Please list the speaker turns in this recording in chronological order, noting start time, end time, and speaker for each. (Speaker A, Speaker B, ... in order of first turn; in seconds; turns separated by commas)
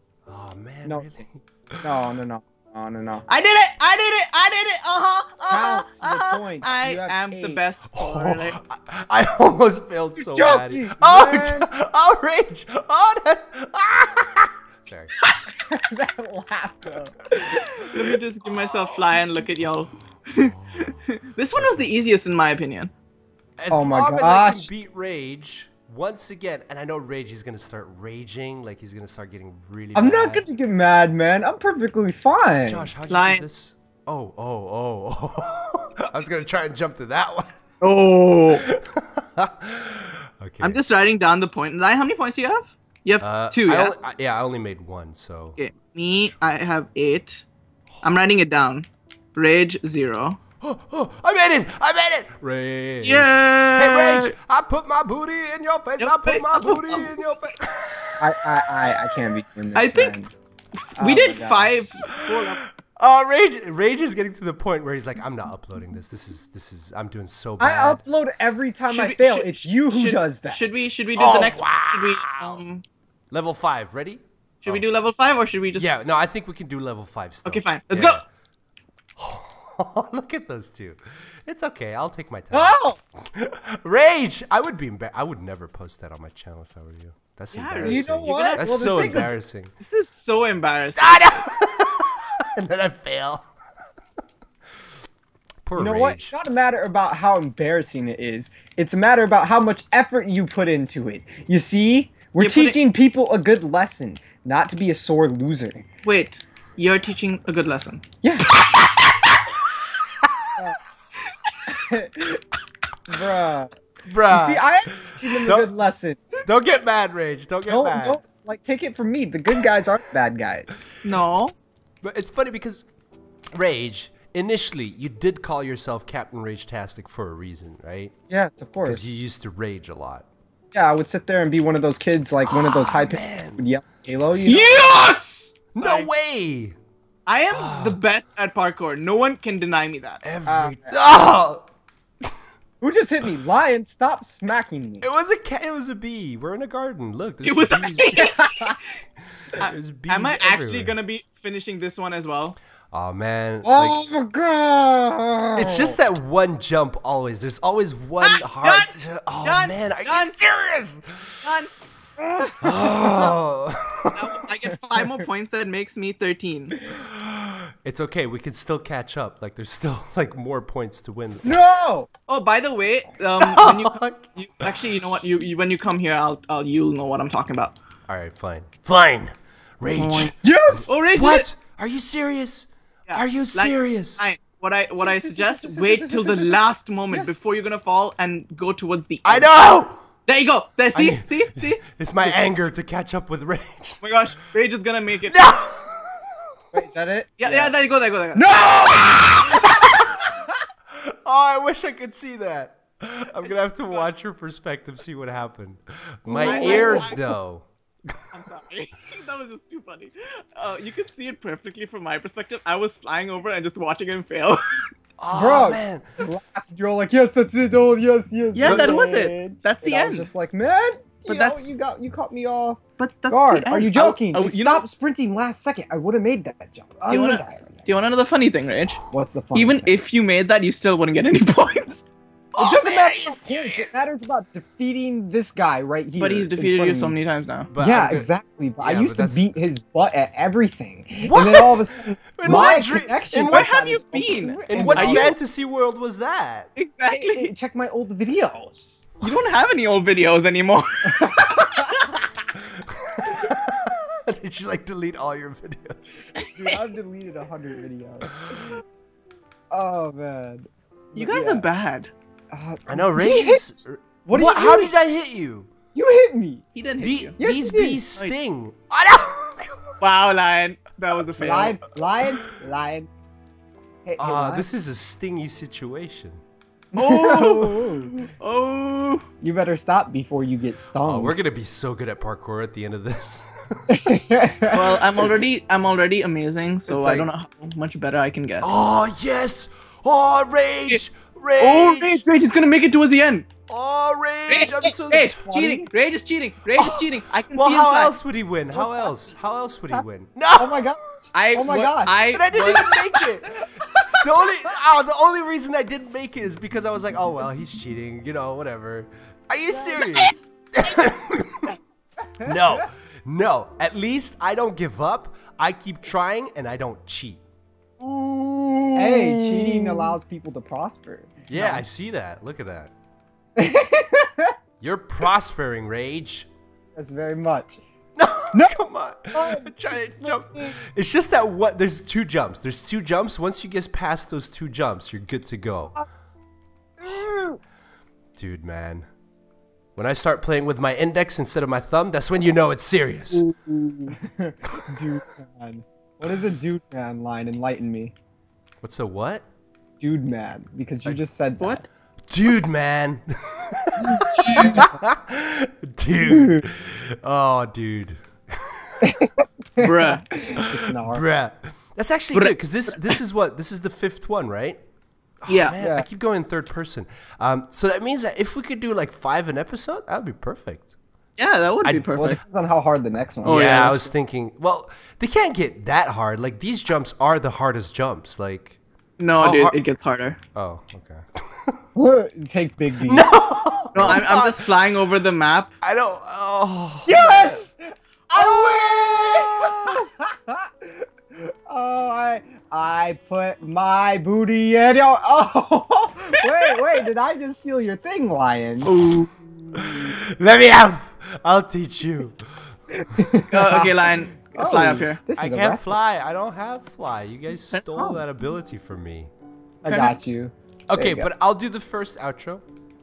Speaker A: 0.3-1.9, Speaker B: 1.8-3.2, Speaker C: 3.3-8.6, Speaker B: 5.5-7.6, Speaker A: 7.9-15.1, Speaker B: 10.3-11.7, Speaker B: 15.5-18.0, Speaker C: 17.5-22.9, Speaker A: 20.4-21.0, Speaker A: 21.5-21.9, Speaker A: 23.6-30.5, Speaker B: 23.7-24.7, Speaker B: 29.9-32.9, Speaker A: 32.7-37.5, Speaker C: 33.1-33.5, Speaker C: 37.8-38.7, Speaker A: 38.5-40.8, Speaker C: 40.6-44.0, Speaker A: 43.2-45.6, Speaker C: 45.6-47.5, Speaker C: 48.0-50.4, Speaker A: 50.6-58.2, Speaker C: 53.0-54.3, Speaker C: 56.0-57.5, Speaker B: 58.2-60.3, Speaker C: 59.8-60.2, Speaker C: 60.8-62.6, Speaker B: 61.0-61.8, Speaker A: 62.4-68.0, Speaker B: 67.6-70.7, Speaker C: 68.9-72.8, Speaker A: 71.2-72.6, Speaker A: 73.3-74.9, Speaker C: 74.6-75.9, Speaker A: 75.8-78.2, Speaker C: 77.5-78.2, Speaker A: 79.2-89.7, Speaker B: 82.5-83.0, Speaker C: 87.5-91.5, Speaker B: 87.8-89.4, Speaker A: 91.0-93.5, Speaker A: 95.6-96.4, Speaker B: 95.8-105.8, Speaker C: 102.4-102.8, Speaker C: 106.0-108.0, Speaker B: 108.2-108.5, Speaker C: 108.7-109.3, Speaker B: 111.7-112.4, Speaker B: 113.1-113.7, Speaker A: 114.1-115.7, Speaker B: 114.3-116.3, Speaker A: 116.5-118.2, Speaker B: 117.7-120.8, Speaker C: 121.0-121.5, Speaker A: 122.0-122.8, Speaker A: 123.5-128.1, Speaker B: 128.3-129.2, Speaker A: 128.8-130.3, Speaker B: 130.7-135.0, Speaker A: 132.4-133.6, Speaker C: 134.4-136.1, Speaker A: 135.7-136.8, Speaker C: 137.3-140.2, Speaker A: 137.5-138.0, Speaker A: 140.2-141.6, Speaker B: 140.5-141.0, Speaker B: 142.8-145.1, Speaker A: 145.0-148.2, Speaker C: 147.4-149.0, Speaker B: 148.2-148.8, Speaker A: 149.5-151.0, Speaker C: 149.6-152.6, Speaker A: 152.9-154.0, Speaker B: 153.6-156.0, Speaker A: 155.6-161.4, Speaker C: 158.2-160.4, Speaker C: 161.4-161.7, Speaker C: 162.5-163.3, Speaker A: 162.6-164.2, Speaker C: 164.1-166.8, Speaker B: 164.7-165.2, Speaker A: 166.9-171.6, Speaker B: 171.4-172.1, Speaker C: 172.3-177.8, Speaker A: 173.4-174.8, Speaker A: 178.1-184.2, Speaker C: 179.9-180.3, Speaker B: 180.4-180.9, Speaker C: 180.9-181.5, Speaker C: 183.1-189.6, Speaker B: 185.0-187.4, Speaker A: 189.2-190.0, Speaker C: 190.3-191.8, Speaker A: 190.9-194.0, Speaker C: 194.0-195.5, Speaker A: 195.3-196.3, Speaker B: 196.7-197.8, Speaker C: 197.4-198.7, Speaker B: 198.3-200.6, Speaker A: 199.1-200.1, Speaker A: 201.0-207.7, Speaker C: 203.4-204.1, Speaker B: 206.3-207.3, Speaker C: 206.3-207.2, Speaker C: 208.3-214.9, Speaker A: 215.2-216.0, Speaker B: 215.3-227.9, Speaker C: 218.6-220.3, Speaker C: 221.2-221.6, Speaker C: 223.0-224.9, Speaker C: 227.1-229.0, Speaker B: 229.1-230.1, Speaker C: 229.5-232.0, Speaker A: 232.5-233.9, Speaker B: 232.6-237.2, Speaker C: 236.2-237.7, Speaker A: 237.7-238.3, Speaker B: 237.8-245.4, Speaker A: 238.8-239.5, Speaker A: 241.2-241.8, Speaker A: 242.4-243.7, Speaker C: 242.5-242.8, Speaker C: 243.5-245.3, Speaker A: 244.7-246.7, Speaker C: 246.8-247.5, Speaker B: 247.1-249.1, Speaker C: 249.2-251.3, Speaker B: 251.1-251.9, Speaker A: 252.5-256.2, Speaker C: 256.4-256.9, Speaker B: 256.5-258.8, Speaker B: 259.7-261.7, Speaker C: 261.1-262.1, Speaker B: 262.5-263.7, Speaker A: 262.9-265.7, Speaker B: 264.2-264.9, Speaker B: 265.9-266.6, Speaker C: 266.7-267.3, Speaker A: 267.0-270.0, Speaker B: 267.4-268.0, Speaker C: 270.0-271.8, Speaker B: 271.4-273.1, Speaker B: 274.1-274.7, Speaker A: 274.2-276.4, Speaker B: 276.9-278.1, Speaker C: 276.9-279.3, Speaker B: 279.4-281.4, Speaker A: 281.0-284.0, Speaker B: 283.9-285.0, Speaker C: 284.7-288.7, Speaker A: 286.9-287.3, Speaker A: 288.6-292.2, Speaker C: 291.6-293.5, Speaker A: 293.7-295.5, Speaker C: 294.5-298.2, Speaker B: 295.2-295.9, Speaker A: 296.8-300.9, Speaker B: 298.7-299.2, Speaker B: 300.6-301.0, Speaker C: 301.3-303.0, Speaker B: 301.5-302.1, Speaker A: 302.3-303.6, Speaker B: 303.5-304.3, Speaker A: 304.2-311.8, Speaker B: 309.7-310.0, Speaker C: 310.0-310.3, Speaker B: 312.4-312.9, Speaker A: 312.4-317.4, Speaker C: 318.0-320.2, Speaker B: 319.0-321.9, Speaker A: 321.5-322.9, Speaker B: 323.6-324.5, Speaker A: 324.8-326.5, Speaker B: 327.0-327.8, Speaker A: 328.2-336.0, Speaker B: 328.5-330.8, Speaker B: 337.0-337.6, Speaker A: 338.4-339.1, Speaker A: 340.0-343.4, Speaker B: 343.5-348.1, Speaker A: 348.8-349.4, Speaker B: 350.0-351.9, Speaker C: 351.6-351.9, Speaker A: 352.3-359.1, Speaker B: 354.2-354.9, Speaker C: 354.4-354.8, Speaker B: 356.2-356.6, Speaker B: 359.0-361.2, Speaker C: 359.8-360.3, Speaker A: 360.6-364.8, Speaker C: 362.3-363.2, Speaker A: 365.4-370.9, Speaker C: 365.5-365.8, Speaker B: 365.8-366.1, Speaker C: 371.4-372.4, Speaker B: 372.1-374.1, Speaker C: 373.4-374.0, Speaker A: 373.4-378.8, Speaker C: 379.2-380.4, Speaker A: 379.4-379.8, Speaker A: 380.6-381.8, Speaker B: 382.0-383.3, Speaker A: 383.0-384.7, Speaker C: 383.9-385.7, Speaker A: 385.8-387.2, Speaker C: 387.1-387.6, Speaker B: 387.1-391.1, Speaker C: 388.3-389.6, Speaker B: 391.7-398.9, Speaker C: 398.9-399.3, Speaker A: 399.7-402.4, Speaker B: 403.1-406.0, Speaker C: 403.5-405.2, Speaker A: 405.4-409.3, Speaker C: 407.7-408.2, Speaker B: 409.8-411.3, Speaker C: 409.9-410.2, Speaker A: 410.9-412.6